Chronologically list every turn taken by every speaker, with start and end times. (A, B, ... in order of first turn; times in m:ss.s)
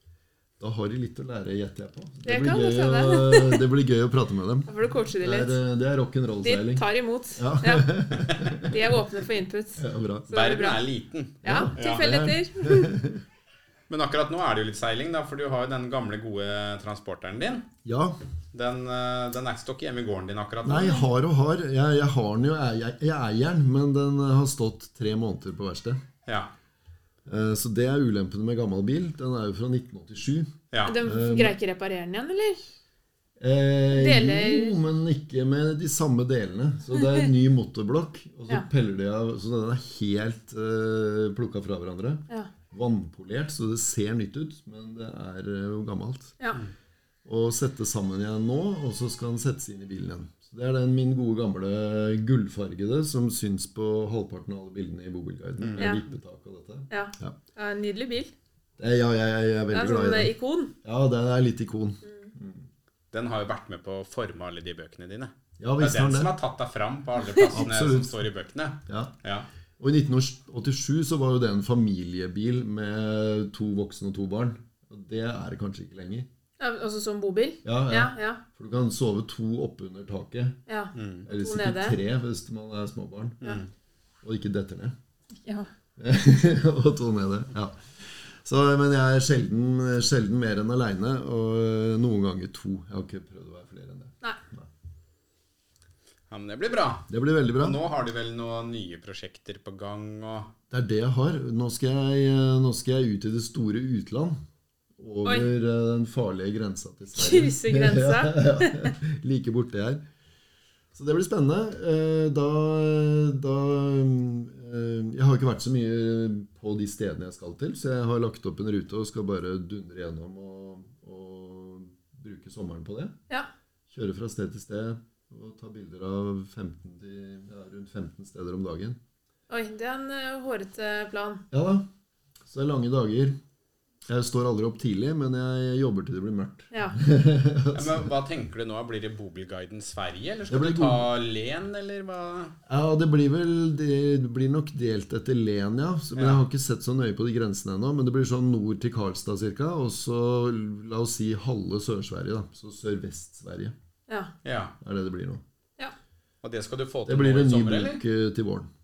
0:00.6-0:04.7 A
0:02.2-0:03.6 B
0:04.7-0:05.6 B
0:05.2-0:06.8 A
0:06.4-0:07.9 B
0:07.4-0:09.0 A
0:08.6-0:10.9 B
0:09.8-0:10.3 A
0:10.3-0:12.1 C
0:11.4-0:13.0 B
0:11.4-0:13.2 A
0:13.9-0:17.7 C
0:17.8-0:18.2 A
0:18.5-0:21.1 C
0:20.6-0:26.0 A
0:26.3-0:26.5 C
0:27.3-0:31.5 A
0:30.7-0:31.0 C
0:30.8-0:32.6 B
0:33.4-0:46.4 A
0:33.9-0:34.8 B
0:47.3-0:57.4 A
0:55.6-0:56.0 C
0:55.8-0:56.0 B
0:56.9-0:58.3 B
0:58.8-1:00.3 A
0:59.7-1:00.7 B
1:00.8-1:02.7 A
1:02.0-1:02.3 B
1:03.1-1:09.5 C
1:05.6-1:06.3 A
1:07.5-1:08.2 A
1:08.9-1:09.1 A
1:09.8-1:16.3 A
1:16.6-1:18.4 B
1:17.6-1:20.6 A
1:20.7-1:22.0 B
1:21.0-1:21.3 C
1:21.2-1:23.6 A
1:23.4-1:23.7 C
1:24.2-1:25.0 A
1:25.4-1:25.7 B
1:26.0-1:34.7 A
1:36.3-1:40.5 C
1:37.1-1:37.8 A
1:40.7-1:44.4 A
1:45.0-1:50.0 A
1:45.2-1:45.5 B
1:47.2-1:49.0 B
1:50.9-2:03.1 A
2:03.9-2:09.0 A
2:09.5-2:11.4 B
2:11.5-2:11.9 A
2:12.5-2:13.4 A
2:14.1-2:18.1 A
2:16.7-2:17.0 B
2:17.7-2:22.6 C
2:20.5-2:21.0 A
2:22.7-2:33.7 A
2:26.2-2:26.4 C
2:34.4-2:34.8 C
2:34.8-2:35.4 A
2:36.4-2:38.0 C
2:37.1-2:38.7 A